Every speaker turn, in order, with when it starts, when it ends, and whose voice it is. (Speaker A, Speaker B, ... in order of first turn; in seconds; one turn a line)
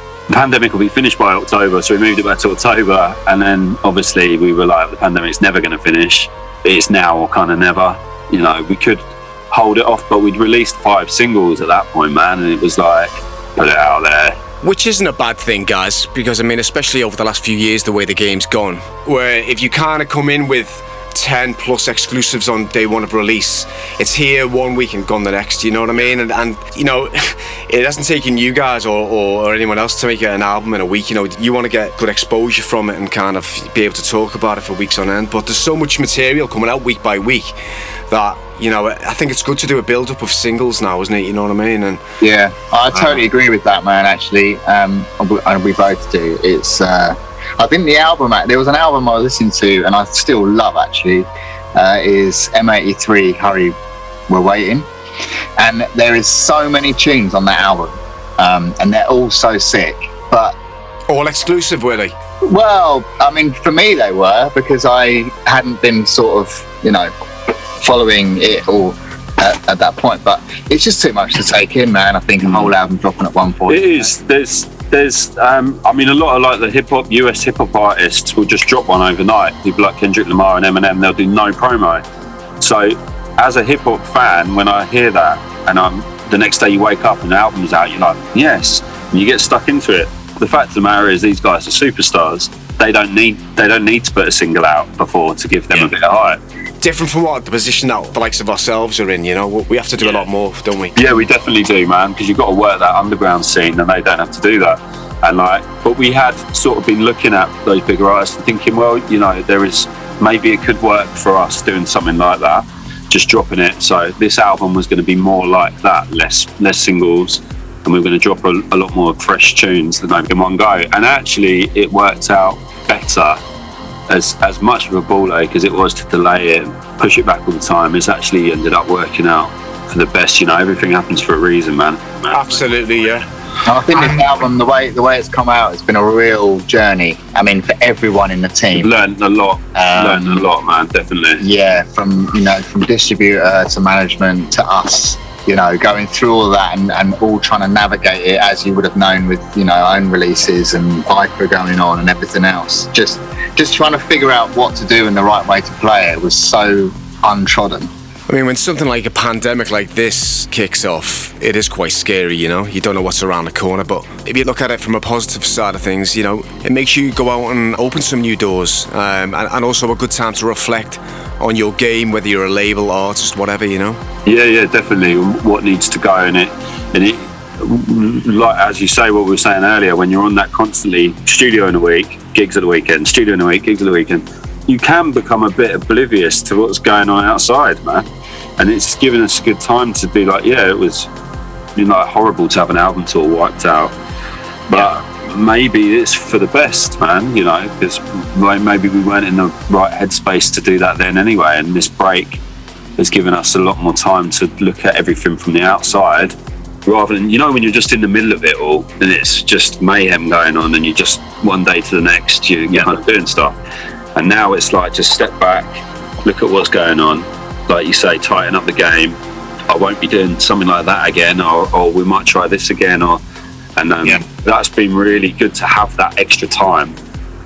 Speaker A: 0.3-14.4
Speaker B: 14.6-37.6
Speaker B: 38.1-42.0
Speaker C: 42.2-53.8
Speaker C: 54.3-54.9
Speaker C: 55.6-60.6
Speaker B: 61.1-62.1
Speaker C: 62.4-67.1
Speaker C: 67.8-74.1
Speaker A: 73.7-82.0
Speaker A: 82.6-96.4
Speaker B: 96.8-101.0
Speaker A: 101.0-123.4
Speaker A: 124.1-132.6
Speaker B: 132.3-133.3
Speaker C: 133.7-138.9
Speaker A: 138.7-141.4
Speaker C: 139.7-140.5
Speaker C: 141.4-157.9
Speaker B: 158.3-174.0
Speaker A: 174.2-188.1
Speaker A: 188.6-191.1
Speaker A: 191.8-193.9
Speaker A: 194.7-202.4
Speaker A: 203.0-213.6
Speaker A: 214.2-219.2
Speaker A: 219.7-223.2
Speaker A: 223.8-227.0